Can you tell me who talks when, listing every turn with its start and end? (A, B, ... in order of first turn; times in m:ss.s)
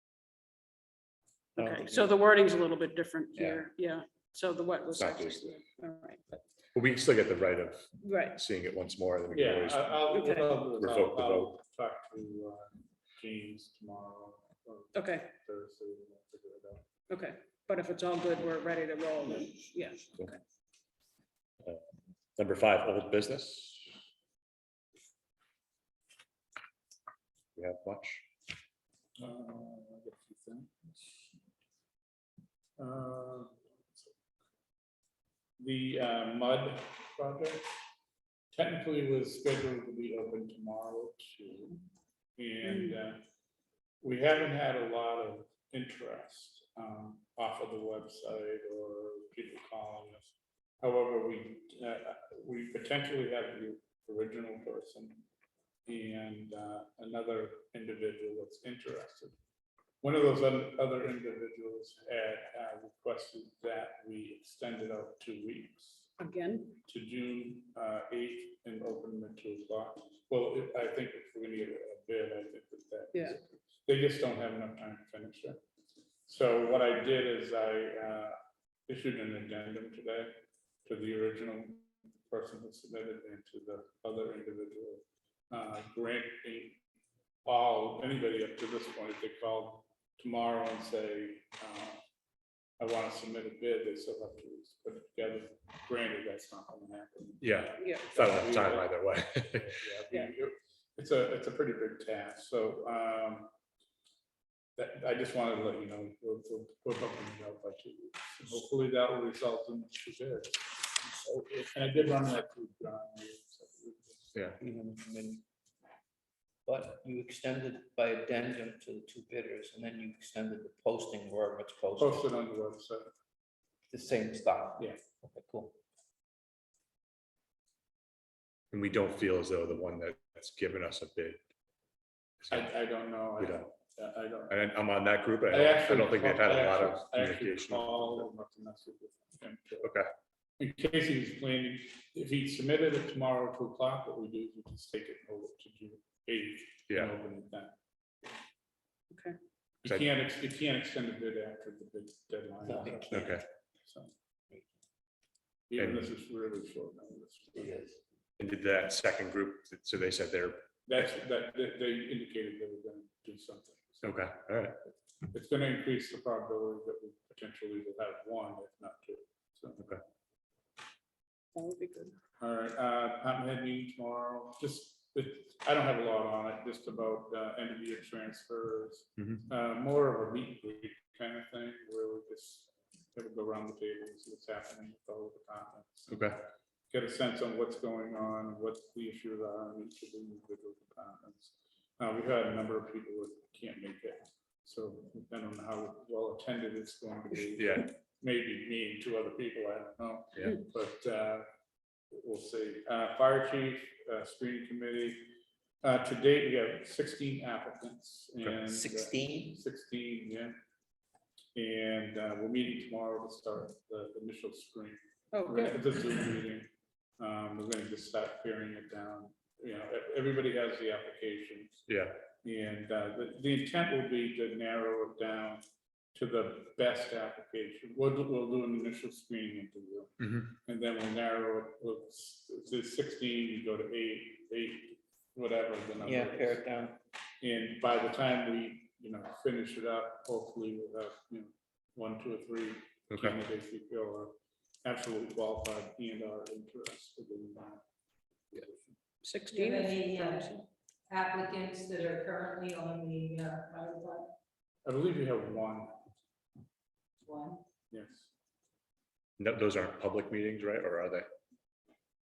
0:01.6-0:02.2 A
0:01.6-0:06.4 B
0:03.4-0:03.6 A
0:05.0-0:05.6 C
0:06.7-0:11.6 C
0:08.0-0:08.4 B
0:09.3-0:16.9 D
0:10.1-0:10.5 B
0:14.9-0:15.3 B
0:17.1-0:20.4 B
0:22.4-0:23.9 C
0:27.6-0:28.2 C
0:29.2-0:31.2 D
0:32.8-0:34.1 D
0:35.6-0:37.8 D
0:38.5-0:41.8 D
0:42.4-0:43.2 D
0:42.6-0:43.0 B
0:44.0-0:55.2 D
0:55.8-0:59.3 D
1:00.0-1:06.1 D
1:06.2-1:06.8 B
1:06.8-1:15.6 D
1:13.1-1:13.4 B
1:16.3-1:18.4 D
1:18.9-1:26.8 D
1:27.4-1:32.0 D
1:32.8-1:43.5 D
1:37.4-1:39.7 C
1:37.8-1:38.2 B
1:44.8-1:54.5 D
1:54.6-1:55.4 A
1:56.6-2:02.3 A
2:02.0-2:03.1 D
2:03.9-2:05.8 A
2:08.7-2:11.4 C
2:12.5-2:14.7 D
2:13.4-2:13.7 C
2:14.5-2:18.2 C
2:15.5-2:20.0 D
2:19.8-2:20.1 C
2:20.6-2:27.8 D
2:29.8-2:34.1 D
2:32.6-2:33.4 A
2:33.1-2:33.4 C
2:35.7-2:37.8 D
2:35.8-2:36.1 C
2:37.6-2:38.0 A
2:38.4-2:40.6 C
2:40.9-2:44.2 D
2:44.0-2:44.8 C
2:45.3-2:50.0 D
2:51.6-2:52.1 B
2:52.4-3:21.4 D
3:06.1-3:06.4 C
3:17.6-3:17.9 C
3:22.1-3:30.5 D
3:28.6-3:29.6 A
3:31.5-3:56.8 D
3:35.3-3:35.8 B
3:41.9-3:42.2 C
3:50.2-3:50.5 C
3:56.0-3:57.0 A
3:57.4-4:07.8 D
4:03.1-4:03.4 C
4:08.5-4:09.0 D
4:09.2-4:10.6 B
4:09.5-4:10.5 E
4:11.1-4:14.3 E
4:14.8-4:16.1 D
4:17.2-4:17.6 E
4:17.9-4:18.3 D
4:19.4-4:21.3 C